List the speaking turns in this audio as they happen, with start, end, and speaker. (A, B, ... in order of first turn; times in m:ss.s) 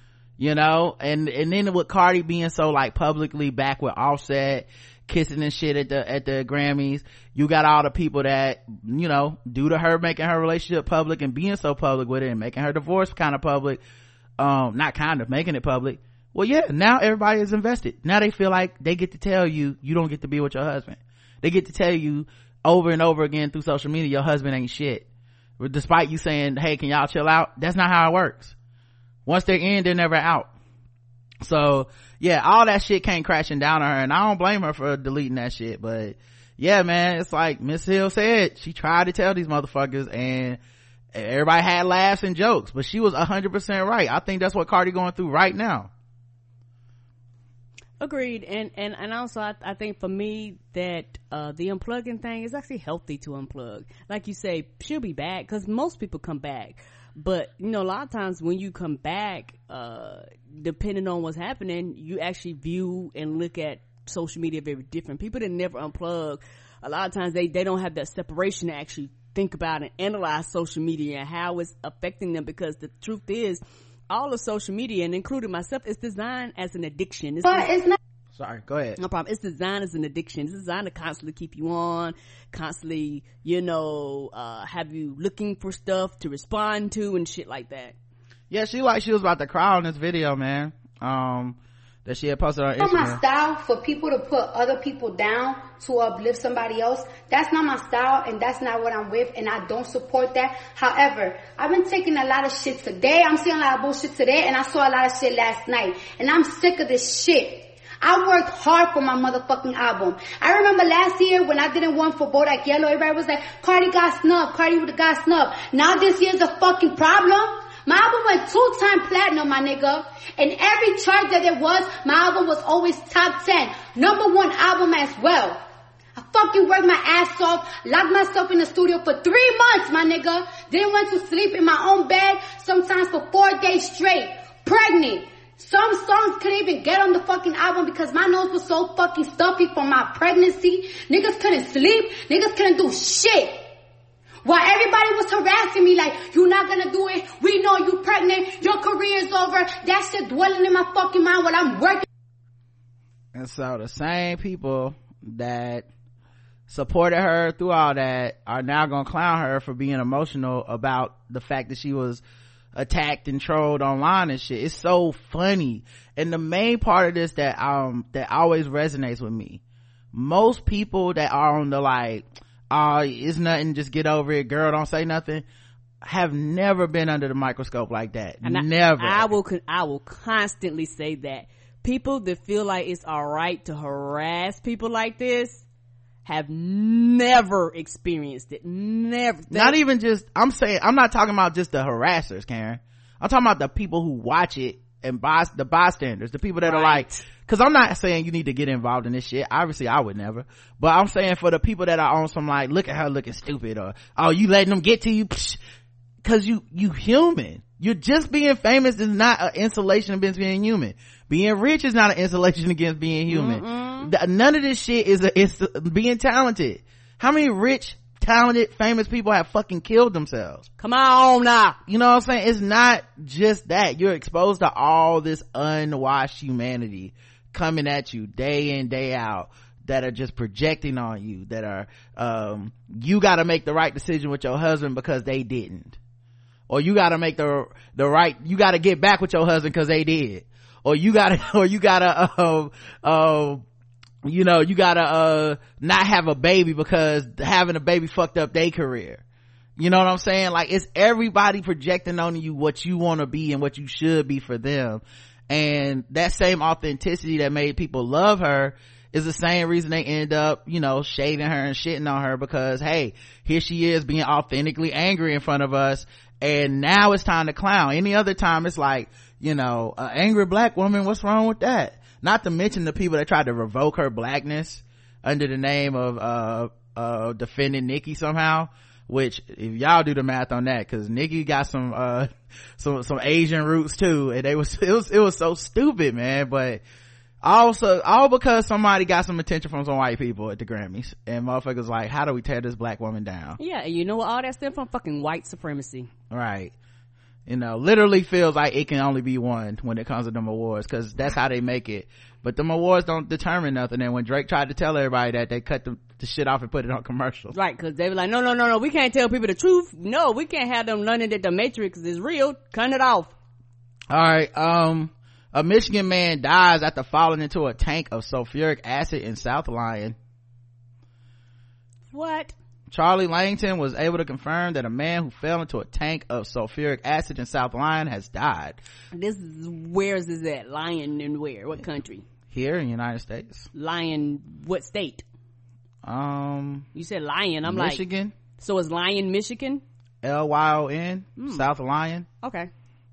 0:00.4-0:13.8 A
0:14.4-0:25.1 A
0:25.6-0:28.6 A
0:29.3-0:30.5 A
0:31.4-0:40.6 A
0:41.1-0:45.9 A
0:48.0-1:17.8 B
1:17.7-1:18.0 C
1:18.3-1:19.0 A
1:19.0-1:28.0 B
1:28.5-1:33.2 A
1:32.8-2:05.6 C
2:06.2-2:23.6 C
2:24.4-2:32.0 C
2:33.3-2:35.9 A
2:36.7-2:42.2 A
2:42.8-2:49.6 A
2:50.1-2:55.4 A
2:56.0-2:59.3 A
2:58.4-3:05.6 B
3:06.2-3:09.8 B
3:09.5-3:25.6 A
3:16.6-3:17.3 B
3:26.2-3:40.7 A
3:33.3-3:34.1 B
3:40.8-3:41.8 B
3:41.9-3:56.0 A
3:56.7-4:03.6 A
4:04.2-4:09.2 A
4:09.8-4:46.8 A
4:47.4-4:53.6 A
4:53.6-4:56.1 B
4:56.3-4:56.7 A
4:57.5-5:07.6 A
5:07.5-5:13.3 B
5:14.1-5:20.2 A
5:22.1-5:22.5 B
5:22.9-5:28.8 A
5:29.1-5:32.2 B
5:32.5-5:33.7 A
5:33.8-5:35.2 B
5:36.0-5:36.9 A
5:37.0-5:38.0 B
5:37.7-5:38.3 A
5:38.6-5:39.8 B
5:40.2-5:42.3 A
5:41.4-5:41.7 B
5:42.4-5:42.7 B